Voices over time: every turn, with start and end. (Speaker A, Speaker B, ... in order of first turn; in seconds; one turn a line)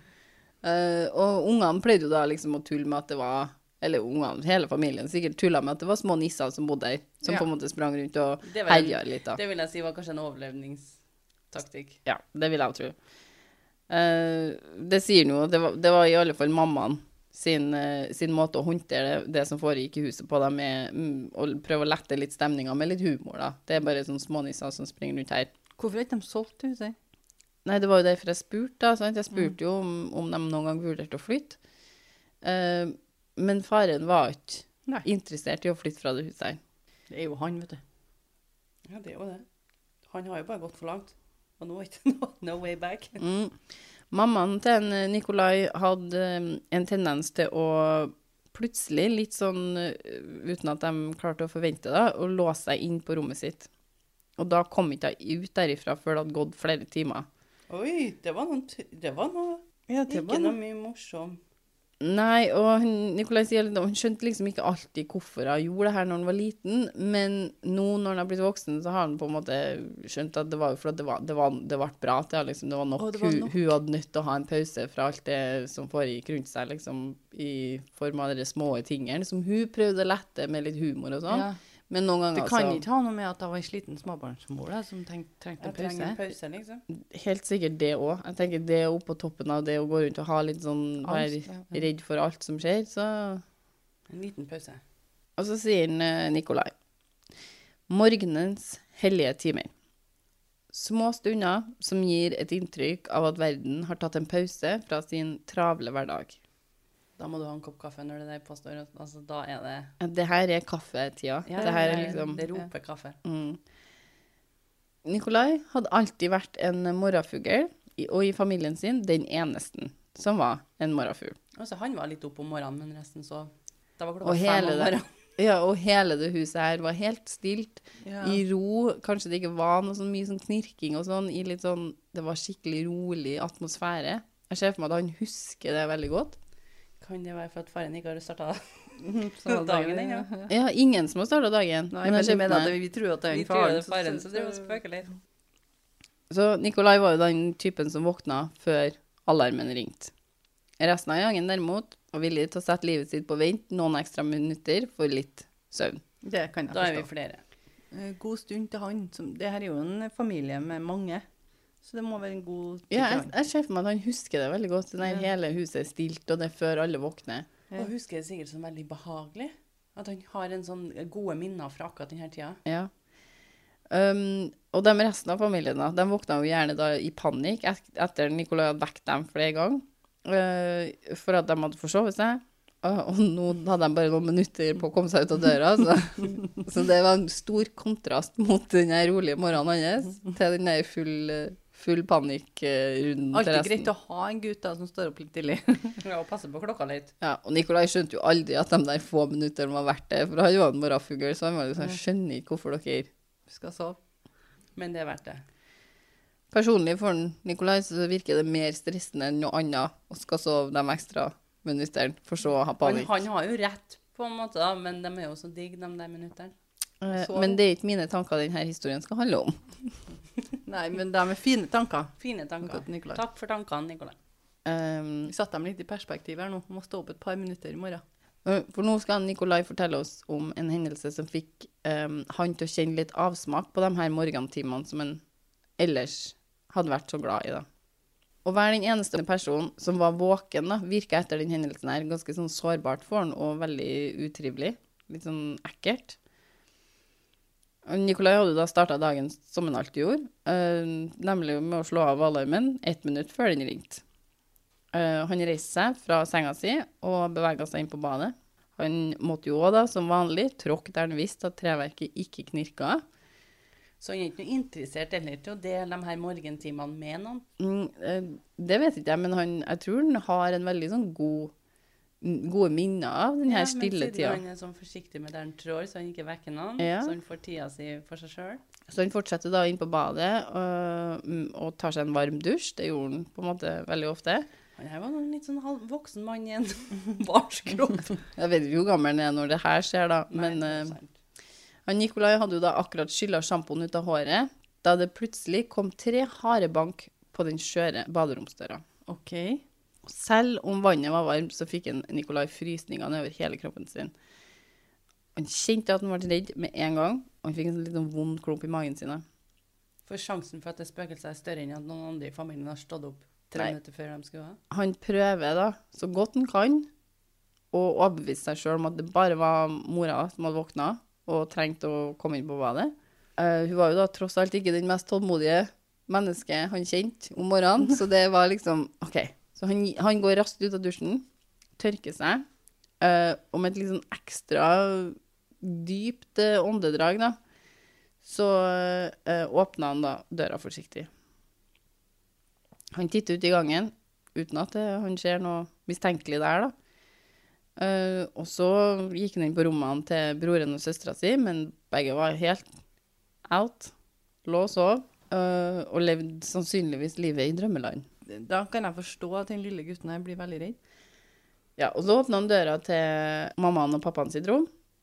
Speaker A: 0.6-9.4
Speaker B: 8.4-11.0
Speaker B: 11.5-12.0
Speaker A: 12.1-12.9
Speaker A: 13.9-25.5
Speaker C: 25.8-27.0
Speaker A: 27.7-31.6
Speaker A: 32.4-36.6
Speaker C: 37.1-37.8
Speaker B: 38.9-39.5
Speaker B: 40.1-43.2
Speaker A: 43.2-43.6
Speaker A: 44.1-53.7
Speaker A: 54.4-57.3
Speaker B: 57.7-61.4
Speaker C: 59.9-60.6
Speaker A: 62.0-82.8
Speaker C: 73.0-73.7
Speaker C: 81.3-81.6
Speaker C: 82.3-86.2
Speaker B: 85.6-86.8
Speaker A: 86.9-93.4
Speaker C: 91.0-91.8
Speaker B: 94.1-94.8
Speaker A: 95.4-96.7
Speaker A: 97.9-99.7
Speaker A: 100.7-106.4
Speaker B: 107.2-109.9
Speaker A: 110.0-112.5
Speaker B: 111.5-113.2
Speaker C: 111.6-112.2
Speaker A: 113.2-113.6
Speaker A: 115.0-121.4
Speaker B: 121.5-125.1
Speaker A: 124.2-136.4
Speaker C: 128.0-128.4
Speaker B: 137.0-138.6
Speaker C: 139.0-140.5
Speaker B: 139.4-140.3
Speaker A: 140.5-142.8
Speaker C: 141.9-144.8
Speaker B: 143.3-145.1
Speaker A: 146.3-150.1
Speaker A: 150.8-156.0
Speaker C: 156.2-157.1
Speaker B: 156.7-157.4
Speaker C: 157.9-161.2
Speaker C: 161.8-163.3
Speaker A: 162.9-167.5
Speaker B: 167.8-172.6
Speaker A: 172.7-172.9
Speaker A: 173.9-193.9
Speaker C: 193.3-196.0
Speaker B: 196.0-197.1
Speaker A: 197.2-203.1
Speaker C: 203.5-204.0
Speaker B: 204.8-205.4
Speaker A: 206.5-213.1
Speaker B: 212.8-216.5
Speaker A: 217.0-219.6
Speaker C: 217.1-217.6
Speaker C: 220.7-223.2
Speaker B: 222.2-224.2
Speaker A: 224.7-225.3
Speaker C: 225.3-228.0
Speaker A: 228.4-235.2
Speaker A: 235.8-237.7
Speaker A: 238.4-246.2
Speaker A: 247.9-254.0
Speaker A: 254.9-263.0
Speaker B: 264.0-267.4
Speaker A: 267.6-271.5
Speaker A: 272.2-274.4
Speaker B: 273.4-278.6
Speaker A: 276.8-277.2
Speaker A: 278.9-284.5
Speaker B: 284.8-288.2
Speaker A: 288.4-291.0
Speaker B: 290.3-291.1
Speaker A: 291.9-298.9
Speaker C: 299.1-299.6
Speaker A: 300.1-304.1
Speaker A: 305.4-309.2
Speaker B: 310.1-314.6
Speaker A: 314.7-316.9
Speaker A: 317.7-331.3
Speaker A: 331.8-332.4
Speaker A: 333.0-337.4
Speaker A: 338.2-341.1
Speaker A: 342.9-346.7
Speaker A: 347.8-352.7
Speaker A: 353.5-353.9
Speaker A: 354.4-358.1
Speaker C: 358.3-360.8
Speaker A: 361.8-364.7